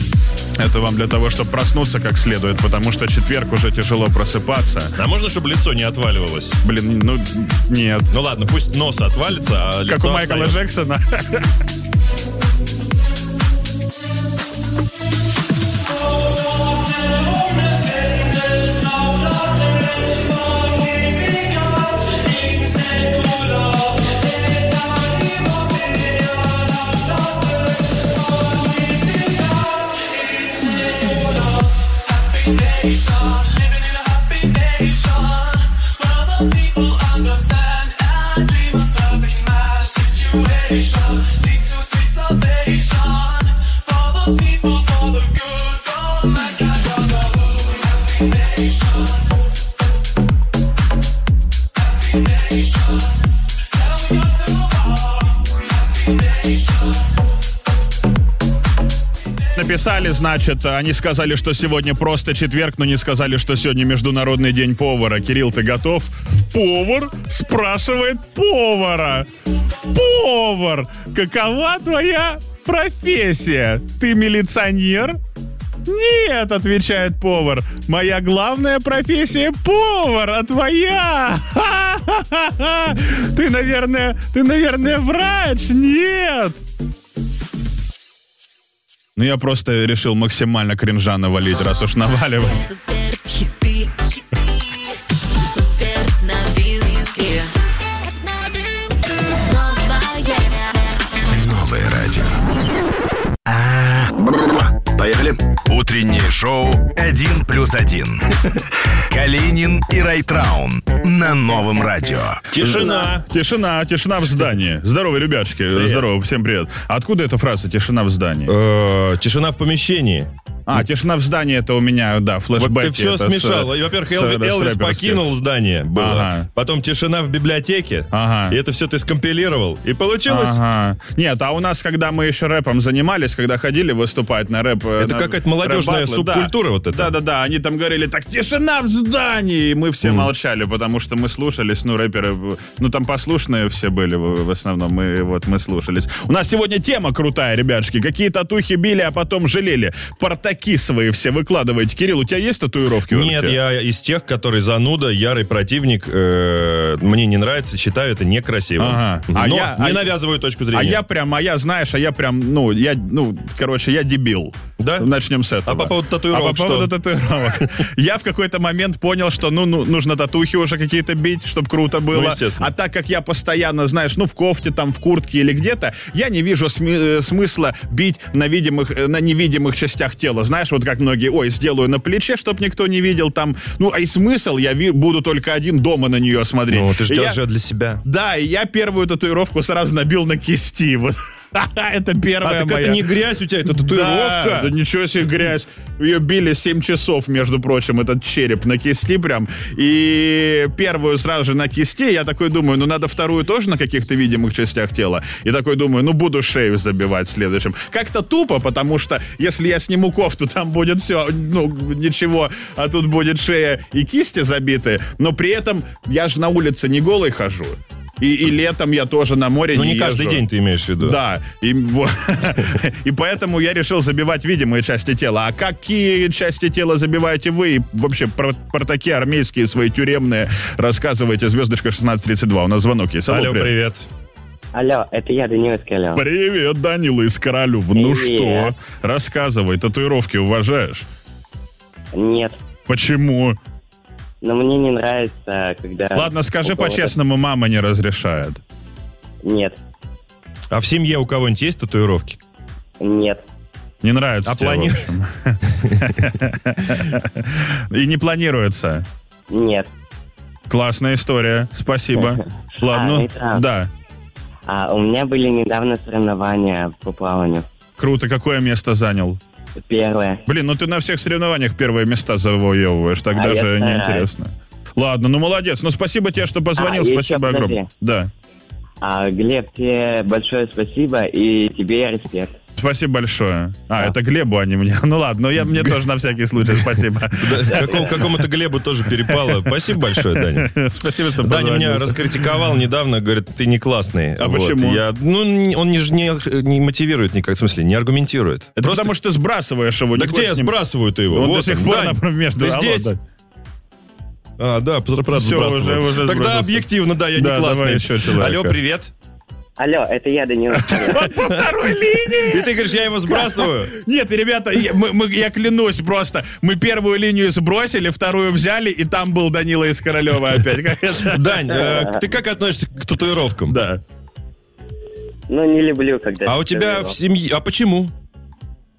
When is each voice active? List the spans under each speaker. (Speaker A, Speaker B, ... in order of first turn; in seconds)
Speaker A: 0.6-5.0, 6.6-8.1, 9.9-11.5, 59.5-69.3, 69.9-75.2, 75.9-86.6, 89.2-92.6, 112.6-118.5, 120.7-125.3, 126.0-126.5, 128.1-128.6, 130.3-153.6, 158.8-160.2, 160.7-187.4, 188.0-193.0, 193.8-220.4, 221.0-233.7, 236.1-241.1, 242.9-243.6, 246.1-248.6, 254.0-259.1, 260.7-263.9, 268.0-269.4, 270.5-278.3, 282.8-288.5, 289.3-292.4, 294.4-295.0, 298.8-300.7, 301.3-303.2, 305.3-308.8, 310.8-312.7, 313.3-321.9, 323.7-324.0
Speaker B: 5.0-6.6, 8.1-10.6, 112.5-113.3, 115.7-116.1, 118.5-120.8, 122.5-130.6, 135.0-137.1, 140.0-140.3, 153.1-161.0, 164.8-165.1, 165.7-166.9, 172.1-172.7, 186.7-188.0, 192.4-194.7, 219.7-221.2, 233.3-234.1, 250.7-252.4, 254.5-255.1, 287.3-290.7, 291.4-299.1, 300.1-303.1, 304.6-309.1, 311.3-311.7, 312.2-313.9, 321.1-323.8, 326.4-328.1
Speaker C: 92.5-97.5, 99.5-100.6
Speaker D: 101.3-102.4, 103.5-104.1, 104.8-108.6, 109.1-112.5
Speaker E: 234.7-236.2, 237.9-238.7, 242.1-242.6, 244.4-247.1, 249.4-249.8, 253.0-253.4, 259.5-259.9, 262.9-263.7, 264.7-267.6, 269.8-270.4, 273.3-274.3, 276.8-277.9, 279.0-282.5, 287.8-288.1, 309.8-311.2, 321.8-322.2, 325.5-327.1